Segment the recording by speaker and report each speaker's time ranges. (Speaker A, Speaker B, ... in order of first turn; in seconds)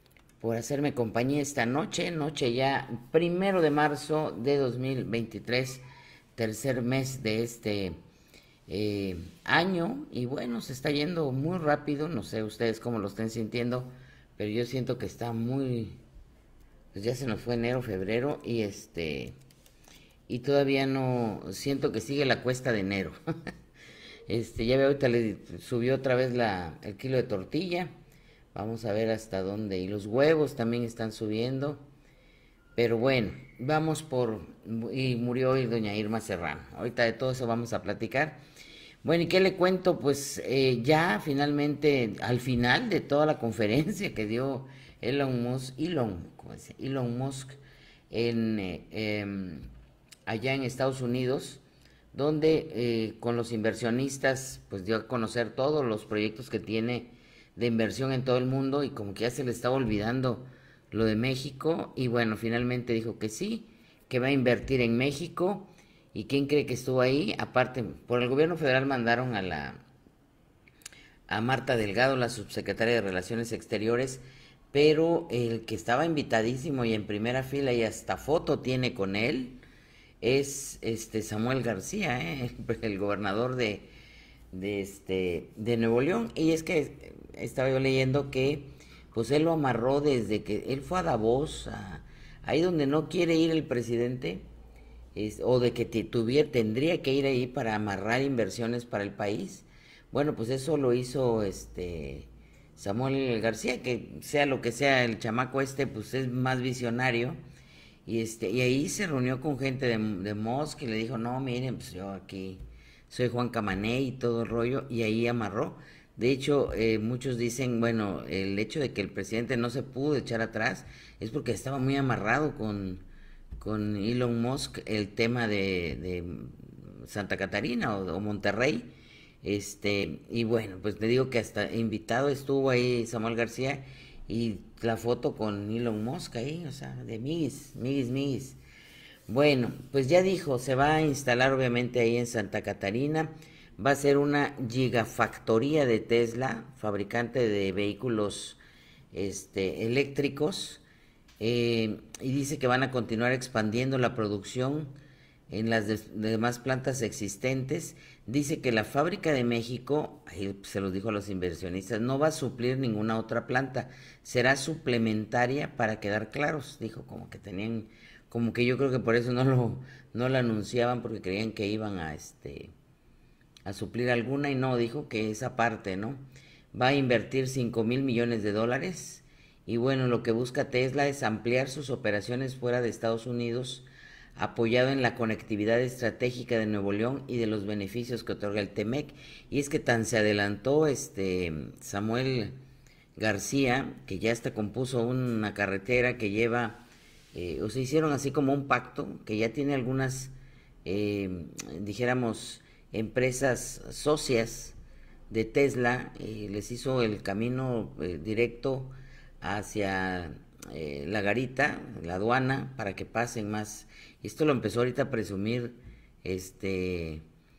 Speaker A: 0.4-8.0, 8.7-16.0, 16.9-19.3, 20.3-23.2, 24.3-27.9, 28.5-31.8, 32.7-38.4, 39.0-47.6, 48.1-49.7, 50.2-51.6, 52.1-69.8, 71.3-79.6, 80.2-83.9, 84.5-94.4, 95.1-107.4, 108.0-123.0, 123.6-128.9, 129.4-138.6, 139.3-148.6, 149.1-150.8, 151.4-154.9, 155.5-172.7, 173.6-192.6, 193.2-200.3, 200.8-204.8, 205.3-217.2